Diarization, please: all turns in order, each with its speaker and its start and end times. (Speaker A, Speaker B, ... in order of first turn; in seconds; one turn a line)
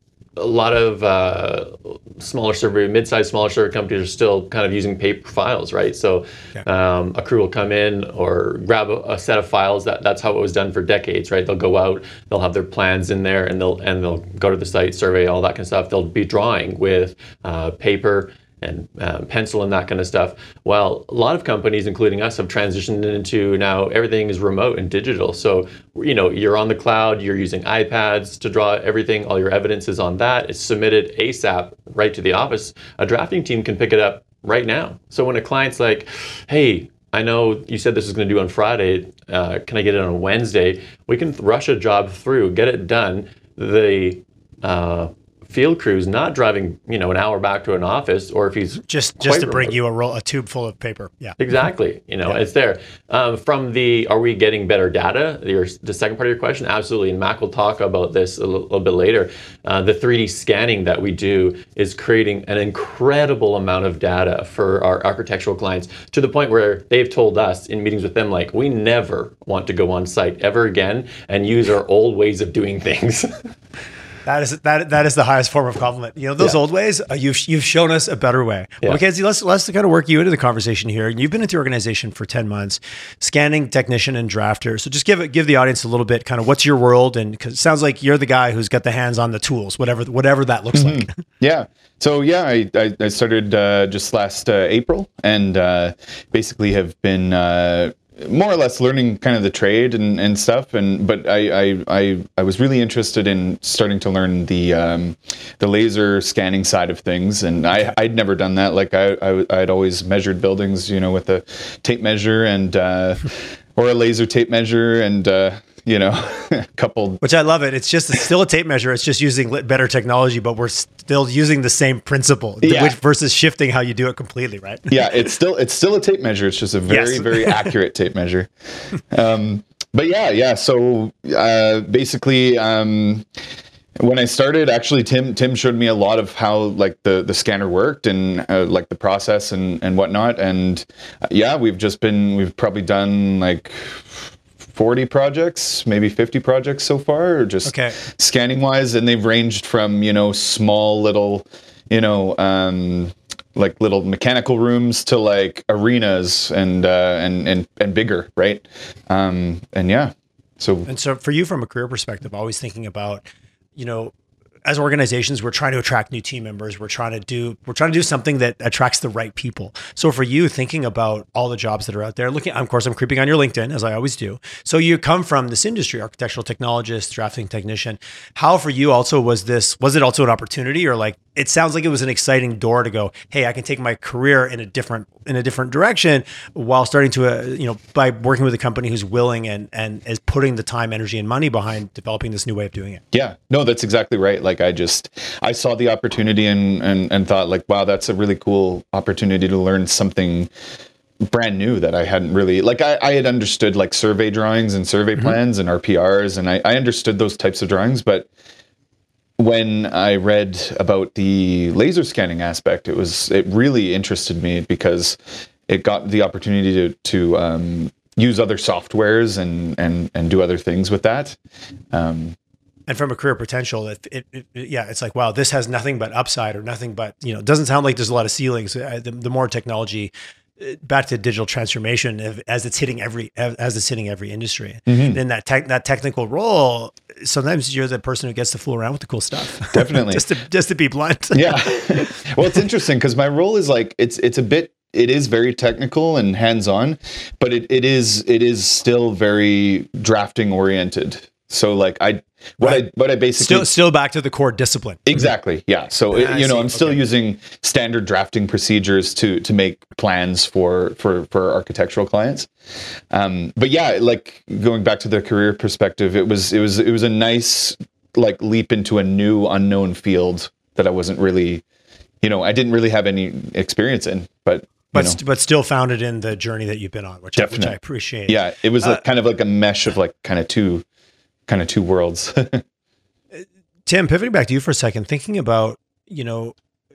Speaker A: 0.4-49.7
Speaker B: 48.8-51.4
Speaker A: 51.4-73.5
Speaker B: 74.2-91.1
Speaker C: 90.7-117.2
Speaker B: 117.2-125.0
Speaker C: 122.6-123.0
Speaker C: 124.9-128.5
Speaker B: 126.9-127.7
Speaker C: 129.0-133.3
Speaker C: 134.0-160.9
Speaker B: 147.6-147.9
Speaker B: 160.9-164.1
Speaker B: 164.7-193.0
Speaker C: 193.1-200.5
Speaker C: 201.3-208.3
Speaker C: 209.4-221.4
Speaker C: 221.9-222.3
Speaker B: 222.9-242.2
Speaker C: 234.9-235.2
Speaker C: 239.7-240.2
Speaker C: 241.3-253.7
Speaker B: 253.4-255.2
Speaker C: 255.1-262.5
Speaker B: 256.1-257.0
Speaker C: 263.1-271.6
Speaker C: 272.2-275.2
Speaker B: 274.9-279.0
Speaker C: 277.4-277.7
Speaker C: 278.3-280.8
Speaker C: 281.5-282.6
Speaker B: 283.3-286.5